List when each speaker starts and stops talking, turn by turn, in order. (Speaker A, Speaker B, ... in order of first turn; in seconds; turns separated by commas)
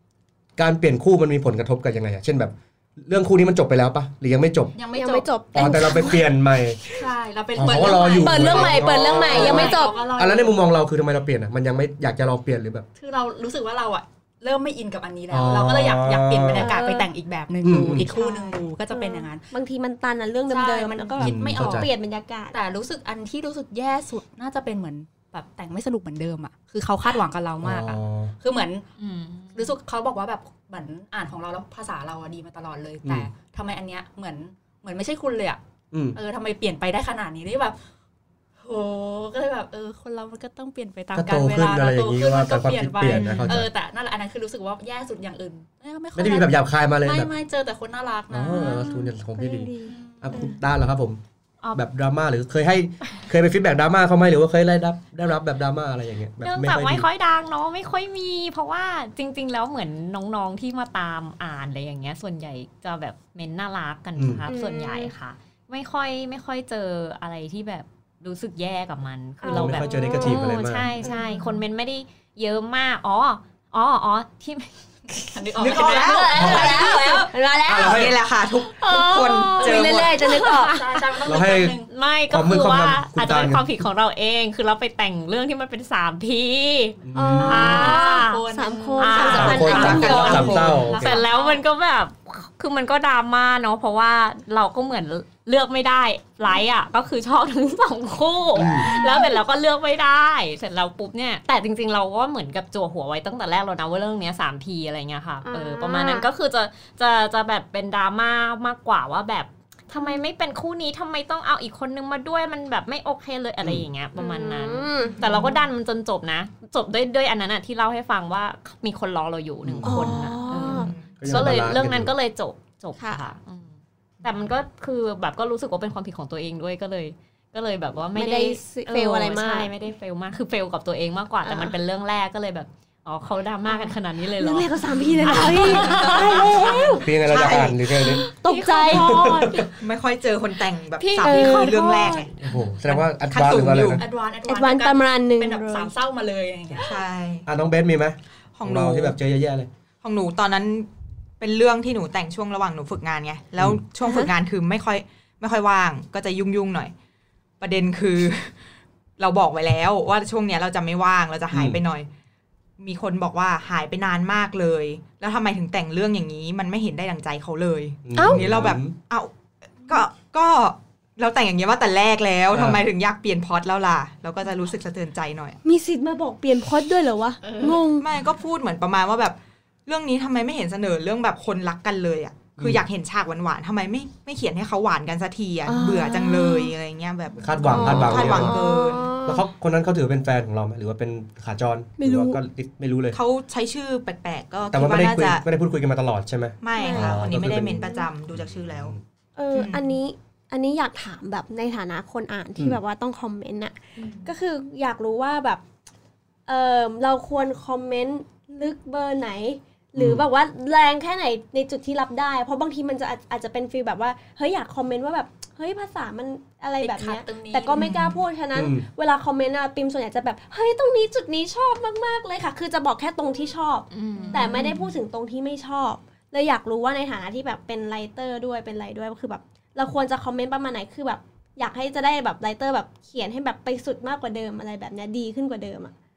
Speaker A: 0.6-4.7, Speaker B: 4.8-5.3, Speaker C: 4.9-6.3, Speaker A: 5.5-6.8, Speaker B: 7.0-10.6, Speaker A: 7.6-12.9, Speaker C: 7.7-10.0, Speaker D: 9.5-9.7, Speaker B: 13.0-19.5, Speaker A: 15.3-16.7, Speaker C: 16.6-17.1, Speaker A: 17.6-18.1, Speaker C: 18.1-22.6, Speaker B: 20.5-21.9, Speaker A: 21.2-21.9, Speaker B: 22.5-28.9, Speaker A: 27.6-28.3, Speaker D: 29.0-29.7, Speaker B: 29.6-35.6, Speaker A: 35.9-36.2, Speaker B: 36.1-37.8, Speaker B: 38.6-48.9, Speaker A: 41.1-43.7, Speaker E: 43.1-43.6, Speaker A: 46.1-47.3, Speaker A: 48.3-51.2, Speaker C: 48.5-50.5, Speaker B: 49.9-50.5, Speaker A: 51.7-57.1, Speaker D: 56.4-74.7, Speaker A: 64.2-64.5, Speaker C: 64.5-65.1, Speaker C: 69.4-70.4, Speaker A: 69.5-71.0, Speaker B: 71.0-71.4, Speaker C: 75.2-78.1, Speaker B: 75.3-77.3, Speaker E: 75.6-80.4, Speaker A: 76.3-76.7, Speaker A: 77.7-78.1, Speaker C: 78.6-80.8, Speaker B: 79.6-79.9, Speaker D: 79.8-136.8, Speaker B: 80.4-81.9, Speaker A: 81.3-81.8, Speaker A: 82.3-83.7, Speaker A: 87.0-88.0, Speaker C: 87.2-90.8, Speaker B: 87.4-91.6, Speaker A: 89.2-91.2, Speaker E: 89.4-90.7, Speaker A: 98.6-98.9, Speaker B: 98.9-99.2, Speaker C: 99.0-99.2, Speaker C: 105.5-106.3, Speaker C: 114.2-115.4, Speaker A: 119.6-120.2, Speaker C: 119.8-120.9, Speaker E: 120.6-121.2, Speaker A: 121.2-122.1, Speaker C: 123.0-123.2, Speaker C: 128.1-129.7, Speaker C: 131.4-131.8, Speaker C: 133.7-137.2, Speaker E: 135.6-138.1, Speaker A: 137.0-138.2, Speaker C: 137.9-139.7, Speaker D: 138.3-139.3, Speaker A: 138.9-139.7, Speaker E: 139.8-142.3, Speaker D: 141.0-141.7, Speaker C: 141.2-142.3, Speaker A: 142.4-144.0, Speaker B: 143.0-147.0, Speaker E: 143.6-143.9, Speaker C: 144.5-145.9, Speaker E: 146.8-147.5, Speaker A: 147.4-149.7, Speaker E: 148.6-149.2, Speaker E: 150.0-156.9, Speaker C: 154.0-154.3, Speaker E: 157.6-158.6, Speaker E: 159.2-162.1, Speaker A: 161.5-161.8, Speaker E: 162.8-175.6, Speaker A: 168.1-168.9, Speaker C: 168.2-168.4, Speaker A: 172.5-172.8, Speaker C: 175.6-178.1, Speaker B: 177.4-177.8, Speaker E: 178.0-189.2, Speaker A: 182.6-182.8, Speaker C: 185.7-186.7, Speaker A: 187.4-188.6, Speaker C: 187.7-189.4, Speaker A: 189.2-193.2, Speaker C: 192.0-192.4, Speaker E: 193.1-195.4, Speaker A: 194.7-199.0, Speaker E: 196.6-199.0, Speaker C: 196.8-197.2, Speaker C: 197.8-198.1, Speaker C: 199.4-205.6, Speaker E: 199.5-200.0, Speaker E: 204.0-204.3, Speaker C: 206.5-235.9, Speaker A: 210.0-210.2, Speaker B: 216.8-217.9, Speaker E: 217.7-218.2, Speaker A: 218.6-218.9, Speaker D: 223.9-224.4, Speaker B: 224.2-224.8, Speaker E: 224.4-224.9